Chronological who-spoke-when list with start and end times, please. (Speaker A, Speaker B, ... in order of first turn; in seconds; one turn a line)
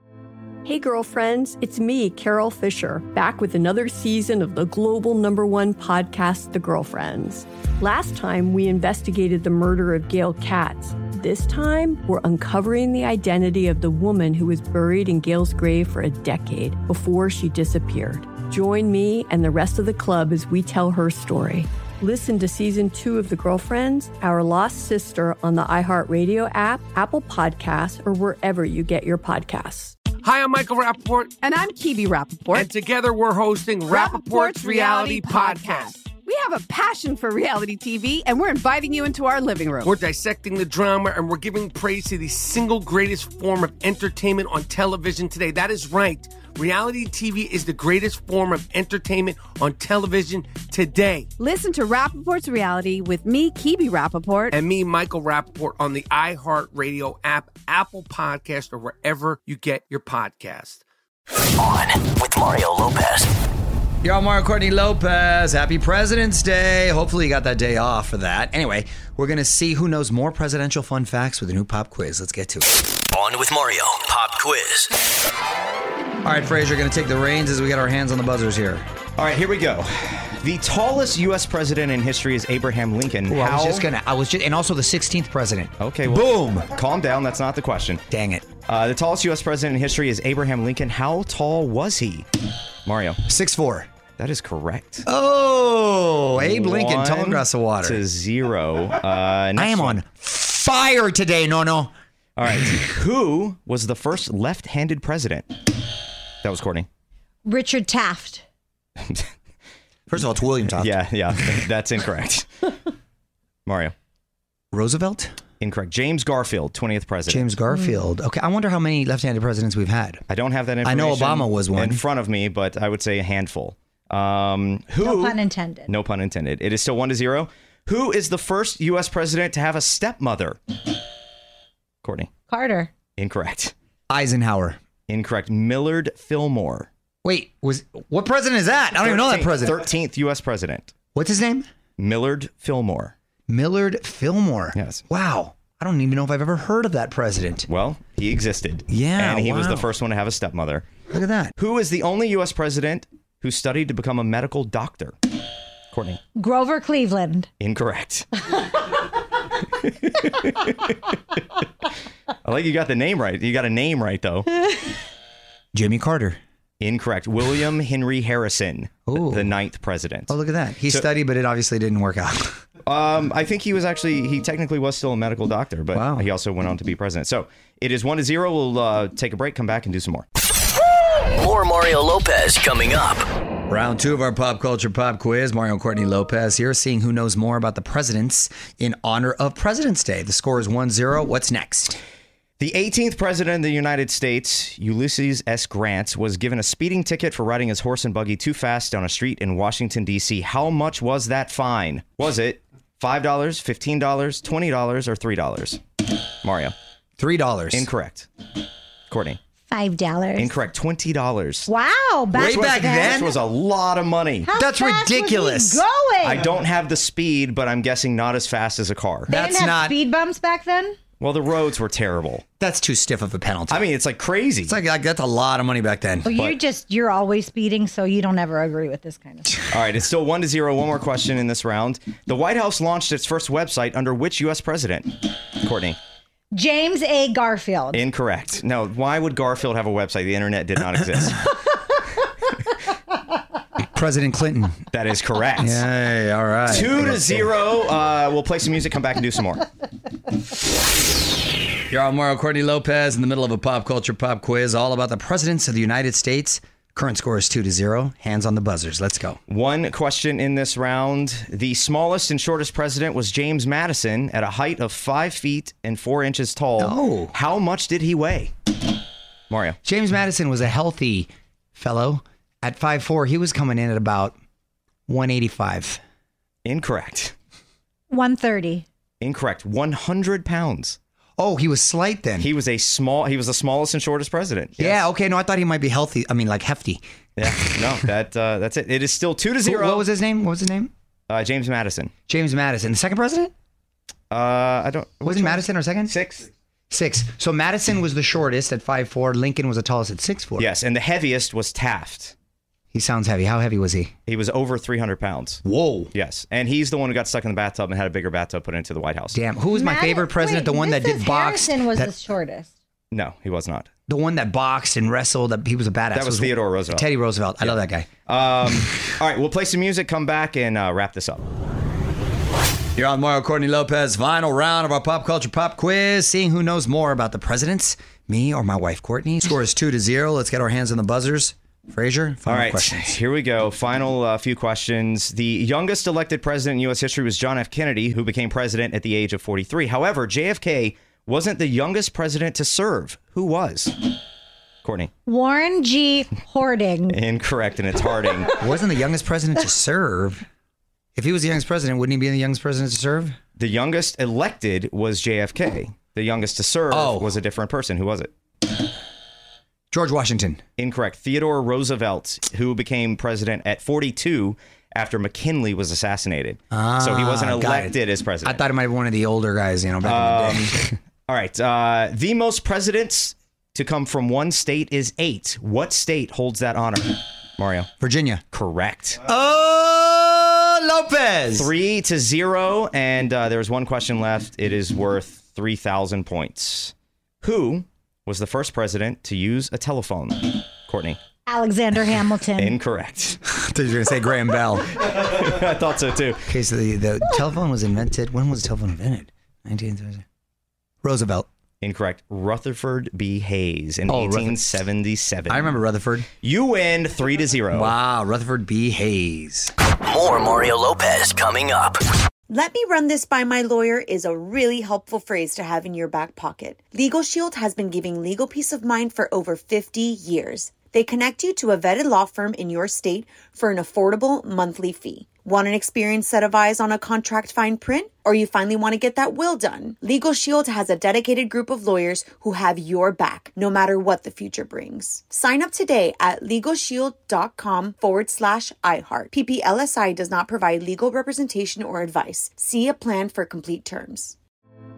Speaker A: 0.7-30.0
Speaker B: 30.2-31.4
Speaker C: 31.4-32.7
Speaker B: 32.5-35.9
Speaker C: 33.9-39.9
Speaker B: 39.8-51.3
Speaker C: 51.4-54.5
Speaker B: 54.5-60.8
Speaker D: 61.6-63.3
Speaker E: 64.0-72.7
Speaker D: 73.1-74.9
Speaker E: 76.2-78.8
Speaker F: 79.2-83.9
Speaker E: 83.3-86.7
Speaker F: 85.8-88.0
Speaker E: 88.1-88.5
Speaker F: 88.7-92.3
Speaker F: 92.9-93.2
Speaker E: 93.3-93.9
Speaker F: 94.2-95.1
Speaker E: 95.1-98.0
Speaker F: 96.4-100.0
Speaker E: 99.6-101.9
Speaker F: 102.4-105.5
Speaker F: 106.4-106.9
Speaker G: 107.5-108.4
Speaker E: 110.1-111.0
Speaker F: 110.8-112.8
Speaker F: 113.7-113.9
Speaker E: 114.7-115.3
Speaker F: 115.6-117.6
Speaker E: 117.3-120.2
Speaker G: 117.7-118.0
Speaker F: 120.3-130.6
Speaker E: 120.8-122.0
Speaker G: 125.0-125.9
Speaker F: 132.0-132.3
Speaker G: 132.5-132.9
Speaker F: 133.2-133.7
Speaker E: 134.1-134.8
Speaker F: 135.1-136.9
Speaker E: 137.2-139.8
Speaker F: 139.0-140.9
Speaker E: 141.2-141.7
Speaker F: 142.0-143.1
Speaker E: 143.5-147.7
Speaker F: 144.7-145.0
Speaker F: 147.7-150.9
Speaker E: 148.9-149.9
Speaker E: 151.1-151.5
Speaker F: 151.6-155.2
Speaker F: 155.9-156.2
Speaker G: 156.3-157.5
Speaker F: 157.6-159.0
Speaker F: 159.8-161.7
Speaker F: 162.4-164.7
Speaker E: 165.7-166.4
Speaker F: 166.8-170.3
Speaker E: 169.1-169.5
Speaker E: 170.3-172.6
Speaker F: 172.8-180.2
Speaker E: 175.9-176.3
Speaker D: 181.3-183.2
Speaker E: 183.7-192.0
Speaker F: 192.6-205.8
Speaker F: 206.4-206.7
Speaker E: 207.2-207.9
Speaker F: 207.7-208.3
Speaker F: 209.1-209.4
Speaker G: 209.7-210.6
Speaker F: 210.4-211.7
Speaker G: 211.7-213.3
Speaker E: 212.3-213.3
Speaker F: 212.4-214.5
Speaker G: 214.4-216.5
Speaker E: 214.5-215.8
Speaker F: 216.2-219.3
Speaker E: 219.3-220.0
Speaker G: 219.3-221.0
Speaker F: 221.2-222.4
Speaker E: 222.6-223.8
Speaker F: 223.7-224.8
Speaker E: 224.7-226.3
Speaker G: 226.2-229.7
Speaker F: 226.3-226.6
Speaker F: 229.7-236.0
Speaker G: 236.5-238.0
Speaker F: 237.9-241.7
Speaker E: 243.9-244.8
Speaker F: 244.9-245.8
Speaker E: 245.6-247.5
Speaker F: 246.7-249.7
Speaker E: 251.9-259.4
Speaker F: 259.5-268.5
Speaker E: 266.8-267.3
Speaker F: 269.5-269.8
Speaker E: 269.8-274.4
Speaker E: 275.1-276.0
Speaker F: 276.6-277.4
Speaker G: 278.1-278.9
Speaker F: 279.2-281.0
Speaker E: 281.4-282.5
Speaker F: 282.4-285.0
Speaker E: 284.8-287.0
Speaker F: 287.4-290.1
Speaker E: 289.6-290.9
Speaker F: 291.3-292.1
Speaker E: 292.3-293.5
Speaker F: 294.3-296.5
Speaker E: 295.2-296.1
Speaker E: 296.9-300.7
Speaker F: 300.6-302.3
Speaker E: 302.9-304.1
Speaker F: 304.3-305.6
Speaker E: 305.6-306.1
Speaker F: 306.1-309.4
Speaker E: 309.3-312.1
Speaker G: 309.7-312.7
Speaker F: 313.1-313.9
Speaker E: 314.1-318.1
Speaker F: 316.1-317.1
Speaker F: 317.6-321.4
Speaker E: 323.0-333.1
Speaker F: 332.5-344.1
Speaker F: 344.8-345.1
Speaker G: 345.3-347.2
Speaker F: 347.1-348.5
Speaker E: 348.5-350.4
Speaker E: 351.1-353.4
Speaker F: 353.6-358.3
Speaker E: 356.9-357.3
Speaker E: 359.9-360.6
Speaker F: 360.8-368.6
Speaker E: 366.7-370.9
Speaker F: 370.0-370.8
Speaker F: 371.3-377.9
Speaker E: 378.0-378.4
Speaker F: 378.5-379.2
Speaker E: 379.2-381.7
Speaker F: 381.6-391.2
Speaker G: 391.5-392.8
Speaker F: 392.5-393.4
Speaker E: 393.5-395.0
Speaker F: 395.0-396.4
Speaker E: 396.5-400.2
Speaker E: 401.0-401.5
Speaker F: 401.8-405.8
Speaker E: 404.1-404.7
Speaker E: 405.5-406.3
Speaker F: 406.4-407.9
Speaker E: 407.7-409.7
Speaker D: 410.1-412.0
Speaker H: 412.5-444.4